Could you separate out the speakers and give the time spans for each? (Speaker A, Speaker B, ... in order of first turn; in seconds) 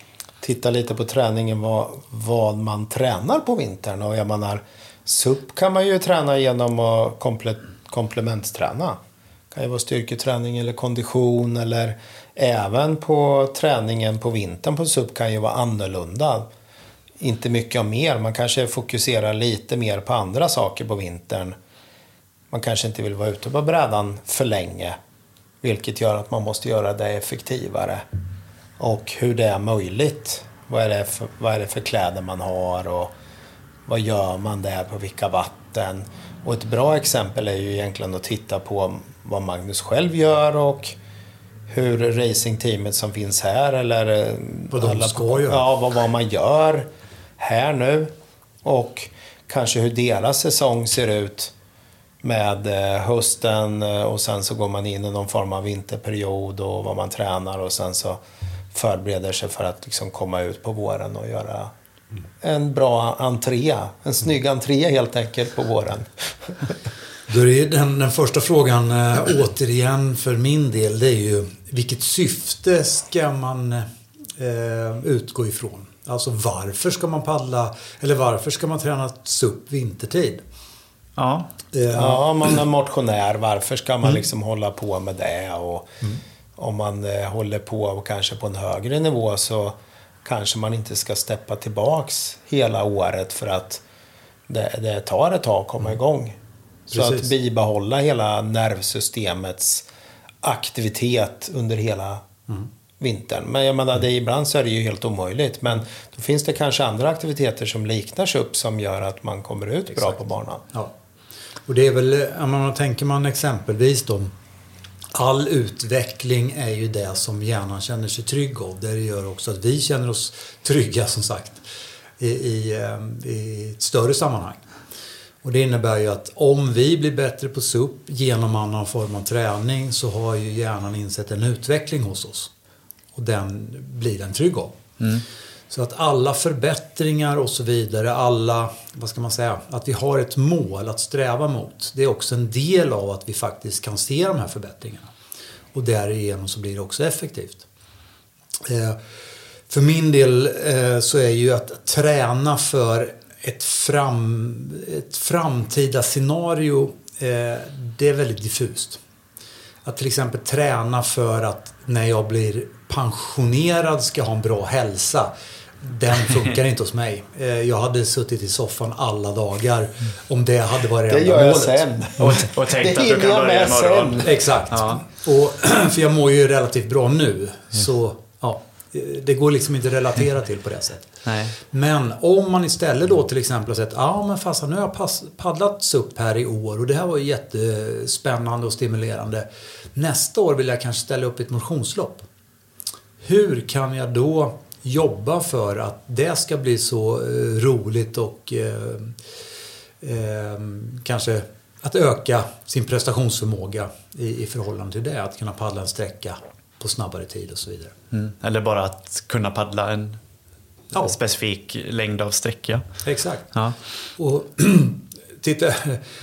Speaker A: 0.4-9.0, 9.5-16.4, 17.2-21.6, 22.5-25.0, 25.6-28.0, 28.8-33.1, 33.9-41.0, 41.7-46.9, 47.4-48.1, 48.6-51.5, 52.2-58.2, 58.7-61.7, 62.4-66.7, 81.9-86.0, 86.6-93.8, 94.5-96.3, 96.9-99.8, 100.4-102.2, 103.0-110.6, 171.1-174.3
Speaker B: 44.7-45.6, 67.3-80.4, 81.7-82.2, 96.9-97.3, 111.7-114.3, 115.1-121.6, 122.2-124.6, 125.4-132.5, 133.1-134.8, 135.7-145.1, 145.7-147.7, 148.6-149.0, 149.7-159.0, 159.8-172.4, 174.2-192.2, 193.2-199.2, 200.0-207.9, 213.0-213.5, 214.2-216.1
Speaker C: 81.2-81.5, 172.2-175.0, 181.2-181.6, 208.1-210.2, 210.9-212.8